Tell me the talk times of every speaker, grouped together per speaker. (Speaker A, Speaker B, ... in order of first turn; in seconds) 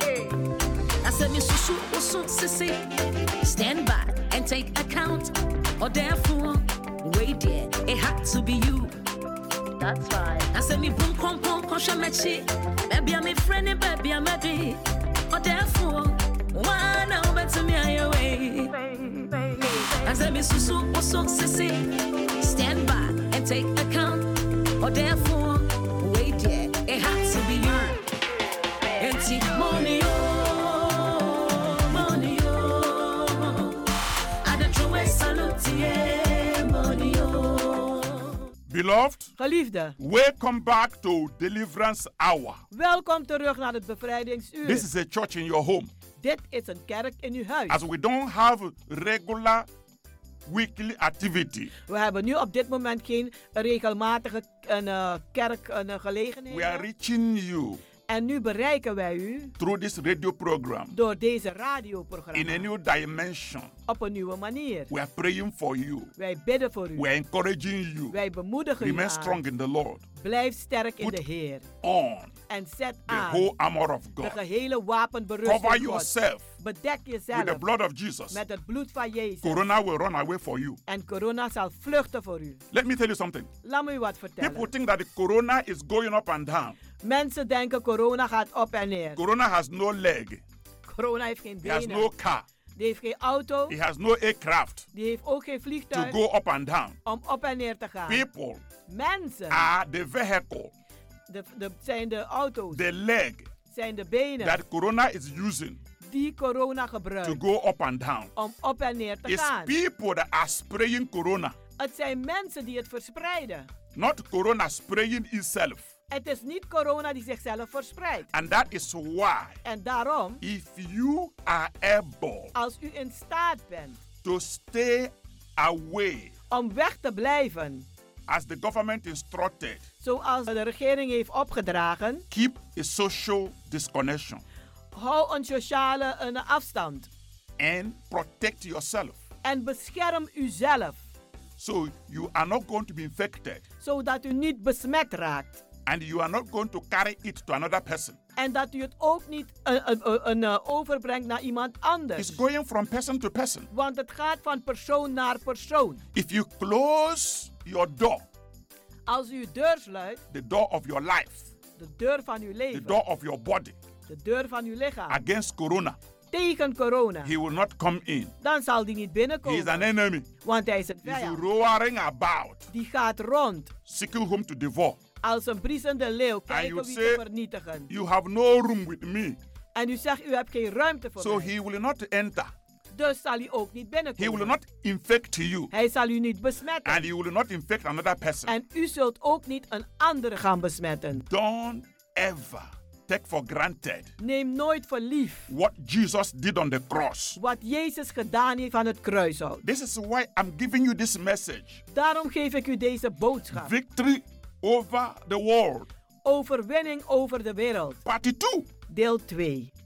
Speaker A: 1.0-2.8, 3.4-8.9, 9.8-28.0, 29.0-33.8, 34.4-38.3
Speaker B: 38.7-39.3, 40.0-42.6, 44.6-45.9, 47.7-49.7, 50.5-51.7, 56.5-57.8, 59.6-60.9, 62.3-63.7, 64.9-66.1, 67.0-68.2, 68.8-70.0, 71.8-72.3, 73.1-74.4, 75.4-76.5, 77.3-78.4, 79.4-80.8, 82.7-83.5, 84.4-86.8, 89.2-90.4, 91.6-92.4, 93.7-94.9, 95.9-97.0, 98.1-98.6, 99.5-100.7, 102.7-103.5, 104.4-105.8, 107.2-108.3, 109.2-111.5, 113.9-115.9, 118.3-119.6, 120.4-122.5, 124.2-126.3, 128.3-129.8, 132.3-134.4, 137.6-139.2, 141.6-143.6, 145.8-148.2, 152.2-153.7, 156.1-158.2, 160.3-161.5, 162.7-163.7, 165.1-166.0, 167.2-168.3, 169.4-170.3, 171.0-172.7, 173.9-175.0, 176.5-177.2, 177.9-179.4, 181.2-182.5, 184.2-185.7, 186.8-188.5, 191.2-194.1, 195.5-197.4, 199.6-201.8, 203.5-205.9, 208.0-208.7
Speaker C: 39.4-40.0, 42.7-44.9, 46.2-47.8, 51.9-56.9, 58.1-59.5, 60.9-62.7, 63.9-64.9, 66.2-67.1, 68.1-69.4, 70.2-71.6, 72.5-73.5, 74.2-77.6, 78.3-79.7, 80.9-82.6, 83.6-84.7, 87.0-89.2, 90.9-92.1, 92.8-93.7, 94.9-96.2, 97.0-98.2, 98.9-99.7, 101.3-102.8, 103.7-104.6, 106.0-107.4, 108.3-109.7, 111.8-113.7, 116.1-118.3, 119.6-120.4, 122.5-124.0, 126.5-127.8, 130.0-132.2, 134.9-137.1, 139.4-141.0, 143.8-145.6, 148.3-152.4, 153.7-156.0, 159.1-160.2, 161.8-162.9, 164.1-165.2, 166.3-167.3, 168.4-169.9, 170.4-171.4, 172.7-173.7, 175.2-177.9, 179.7-181.5, 182.9-184.6, 185.7-187.1, 188.4-191.2, 194.2-195.5, 197.3-199.6, 201.9-203.7, 206.2-208.0, 208.9-209.7